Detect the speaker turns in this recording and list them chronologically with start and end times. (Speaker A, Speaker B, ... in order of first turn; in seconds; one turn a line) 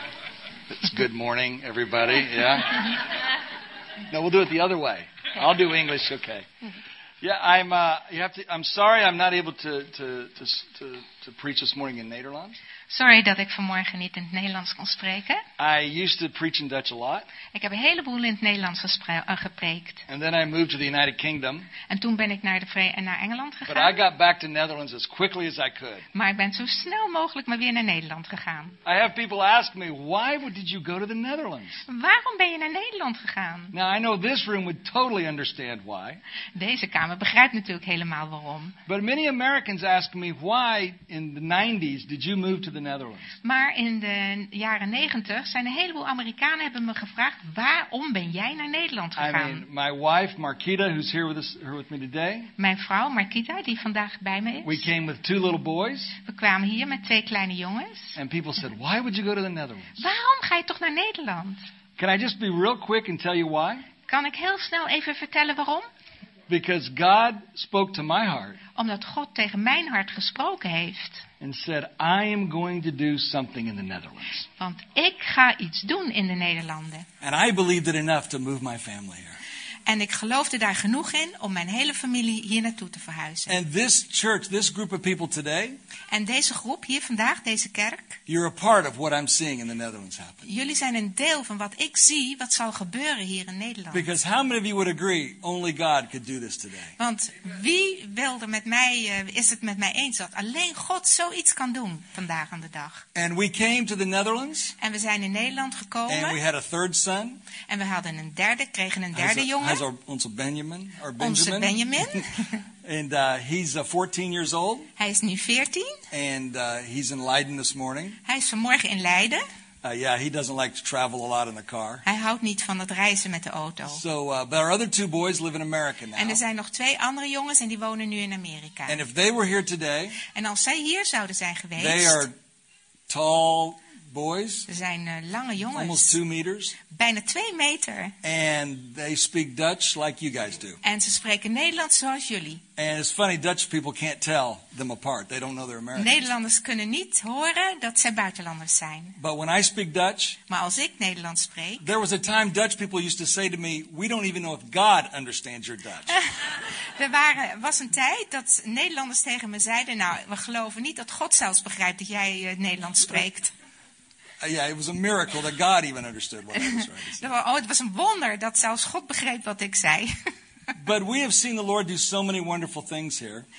Speaker A: 0.7-3.0
Speaker A: 4.1-6.5
Speaker A: 7.2-12.6
Speaker B: 12.9-15.4
Speaker A: 15.6-17.3
Speaker B: 17.5-20.1
Speaker A: 20.1-21.7
Speaker B: 21.9-24.0
Speaker A: 23.7-26.1
Speaker B: 26.1-28.8
Speaker A: 28.8-31.8
Speaker B: 31.9-33.7
Speaker A: 33.7-36.2
Speaker B: 36.5-38.8
Speaker A: 38.9-43.3
Speaker B: 43.4-49.6
Speaker A: 49.2-52.5
Speaker B: 52.6-54.9
Speaker A: 54.6-56.2
Speaker B: 56.2-58.2
Speaker A: 58.2-60.0
Speaker B: 60.0-61.7
Speaker A: 62.0-63.9
Speaker B: 64.1-65.9
Speaker A: 66.5-68.6
Speaker B: 68.7-71.2
Speaker A: 71.4-74.4
Speaker B: 74.6-77.1
Speaker A: 77.2-79.4
Speaker B: 79.8-83.6
Speaker A: 83.5-85.8
Speaker B: 86.1-88.2
Speaker A: 88.3-90.4
Speaker B: 90.4-94.0
Speaker A: 93.9-97.0
Speaker B: 97.0-103.0
Speaker A: 103.1-104.7
Speaker B: 104.8-106.4
Speaker A: 106.1-107.4
Speaker B: 107.7-109.8
Speaker A: 109.1-112.2
Speaker B: 111.2-112.6
Speaker A: 112.8-114.9
Speaker B: 115.0-116.0
Speaker A: 116.1-118.2
Speaker B: 118.2-119.4
Speaker A: 119.8-122.0
Speaker B: 122.0-124.0
Speaker A: 123.9-126.4
Speaker B: 126.2-129.0
Speaker A: 128.9-130.2
Speaker B: 130.2-132.2
Speaker A: 131.8-132.3
Speaker A: 133.1-134.7
Speaker B: 134.7-136.2
Speaker A: 135.7-136.8
Speaker B: 136.9-138.2
Speaker A: 138.2-140.8
Speaker B: 140.8-142.6
Speaker A: 142.8-146.3
Speaker B: 145.9-149.2
Speaker A: 149.2-150.4
Speaker B: 150.5-151.9
Speaker A: 151.8-156.2
Speaker B: 156.9-163.5
Speaker A: 164.4-167.3
Speaker B: 166.5-170.1
Speaker A: 170.8-173.5